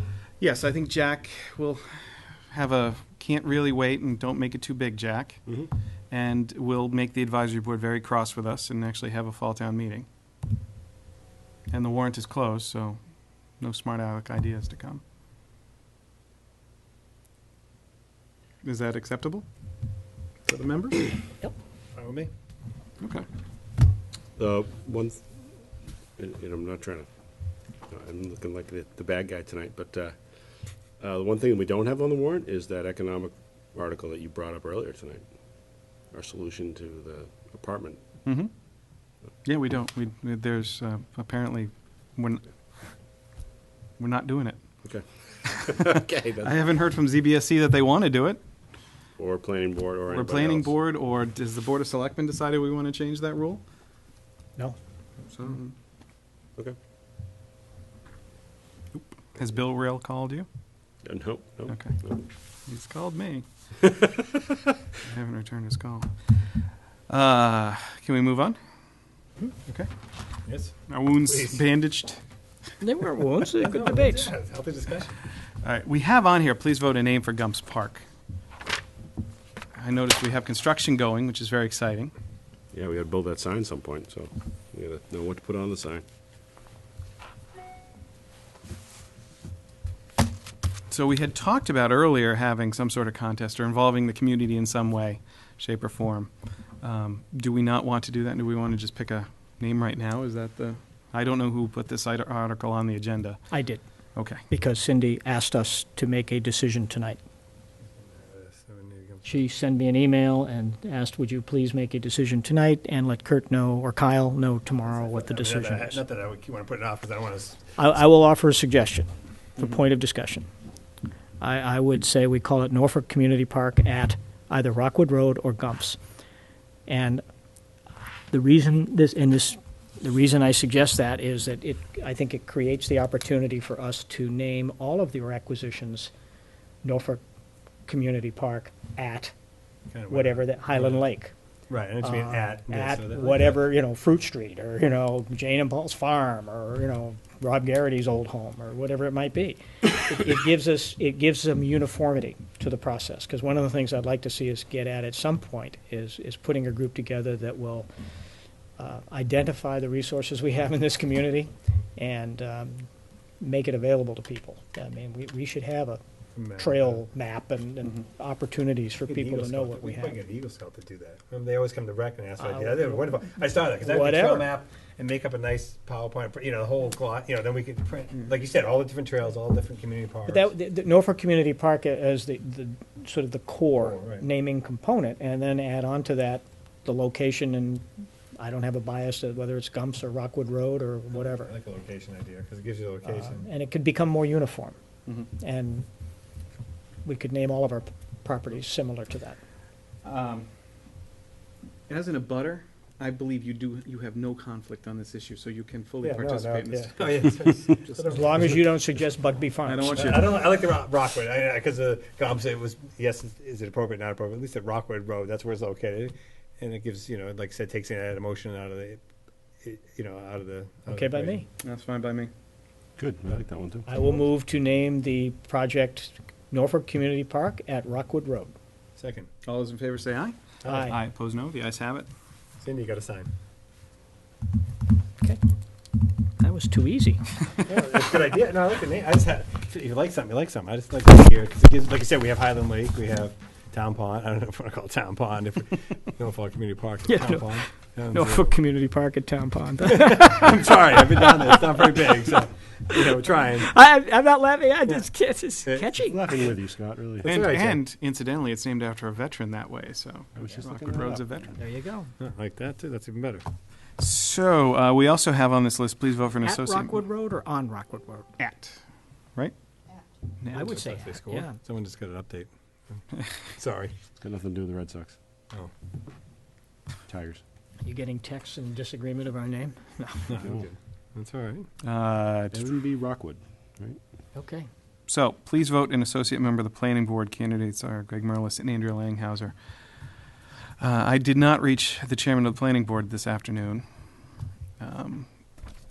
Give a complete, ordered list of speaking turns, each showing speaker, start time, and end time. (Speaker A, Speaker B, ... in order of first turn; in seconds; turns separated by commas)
Speaker A: 0.4-5.5, Speaker A: 6.1-10.1, Speaker A: 11.7-13.0, Speaker A: 13.6-15.0, Speaker A: 18.6-19.5, Speaker A: 20.5-21.1, Speaker B: 21.9-22.3, Speaker A: 23.0-23.3, Speaker C: 24.4-25.5, Speaker C: 26.2-27.1, Speaker C: 27.9-38.0, Speaker A: 38.2-38.5, Speaker A: 39.4-42.4, Speaker A: 44.0-44.6, Speaker C: 44.8-46.6, Speaker A: 45.5-45.8, Speaker A: 46.4-48.4, Speaker C: 49.2-50.8, Speaker A: 50.1-53.6, Speaker A: 55.2-55.7, Speaker A: 59.3-60.5, Speaker C: 61.0-62.2, Speaker A: 61.7-62.0, Speaker A: 62.7-63.5, Speaker C: 63.8-64.7, Speaker A: 65.0-66.1, Speaker A: 67.1-68.6, Speaker B: 70.5-71.6, Speaker A: 70.9-72.2, Speaker D: 72.8-74.3, Speaker B: 73.6-75.1, Speaker A: 75.6-78.0, Speaker A: 79.7-82.1, Speaker C: 82.7-86.0, Speaker A: 90.9-96.3, Speaker A: 96.8-103.4, Speaker D: 103.5-103.8, Speaker A: 104.2-104.4, Speaker D: 104.4-107.2, Speaker B: 108.0-109.4, Speaker D: 109.2-116.0, Speaker B: 114.9-117.8, Speaker D: 117.8-120.5, Speaker D: 121.4-126.0, Speaker D: 126.9-127.2, Speaker D: 128.3-136.1, Speaker D: 136.8-137.2, Speaker D: 137.9-139.3, Speaker B: 139.9-141.1, Speaker D: 140.1-141.3, Speaker B: 141.7-143.6, Speaker D: 142.0-157.9, Speaker D: 158.8-162.9, Speaker D: 163.4-166.0, Speaker B: 166.3-167.0, Speaker D: 166.6-170.2, Speaker B: 169.1-180.5, Speaker D: 172.4-174.5, Speaker D: 180.3-187.9, Speaker B: 183.8-184.3, Speaker D: 188.4-191.5, Speaker B: 191.1-193.5, Speaker D: 193.1-194.8, Speaker D: 195.4-195.9, Speaker D: 197.1-199.4, Speaker A: 200.0-200.5, Speaker A: 201.9-208.2, Speaker B: 206.0-208.8, Speaker D: 208.0-210.2, Speaker A: 209.6-210.3, Speaker B: 209.9-219.0, Speaker B: 219.6-221.4, Speaker D: 220.9-221.5, Speaker A: 221.6-222.3, Speaker C: 223.0-223.9, Speaker D: 223.9-228.6, Speaker B: 229.0-229.3, Speaker A: 229.4-232.1, Speaker B: 230.6-230.9, Speaker D: 230.7-231.0, Speaker B: 232.6-233.3, Speaker D: 236.4-237.4, Speaker B: 237.7-248.5, Speaker D: 247.1-252.0, Speaker B: 249.8-253.7, Speaker D: 252.9-256.5, Speaker B: 255.7-256.0, Speaker C: 256.0-257.4, Speaker B: 257.2-257.8, Speaker A: 257.2-261.6, Speaker C: 260.4-261.4, Speaker D: 261.5-262.1, Speaker B: 262.2-263.4, Speaker A: 264.0-267.0, Speaker D: 266.4-268.5, Speaker A: 268.4-268.8, Speaker A: 270.4-270.7, Speaker D: 270.5-271.6, Speaker B: 270.5-273.9, Speaker C: 274.2-275.2, Speaker C: 277.1-277.4, Speaker D: 277.8-280.4, Speaker B: 280.3-281.7, Speaker C: 280.4-280.6, Speaker A: 281.8-282.7, Speaker C: 282.5-284.0, Speaker D: 284.4-284.7, Speaker A: 285.1-289.6, Speaker A: 290.8-293.9, Speaker A: 294.8-295.3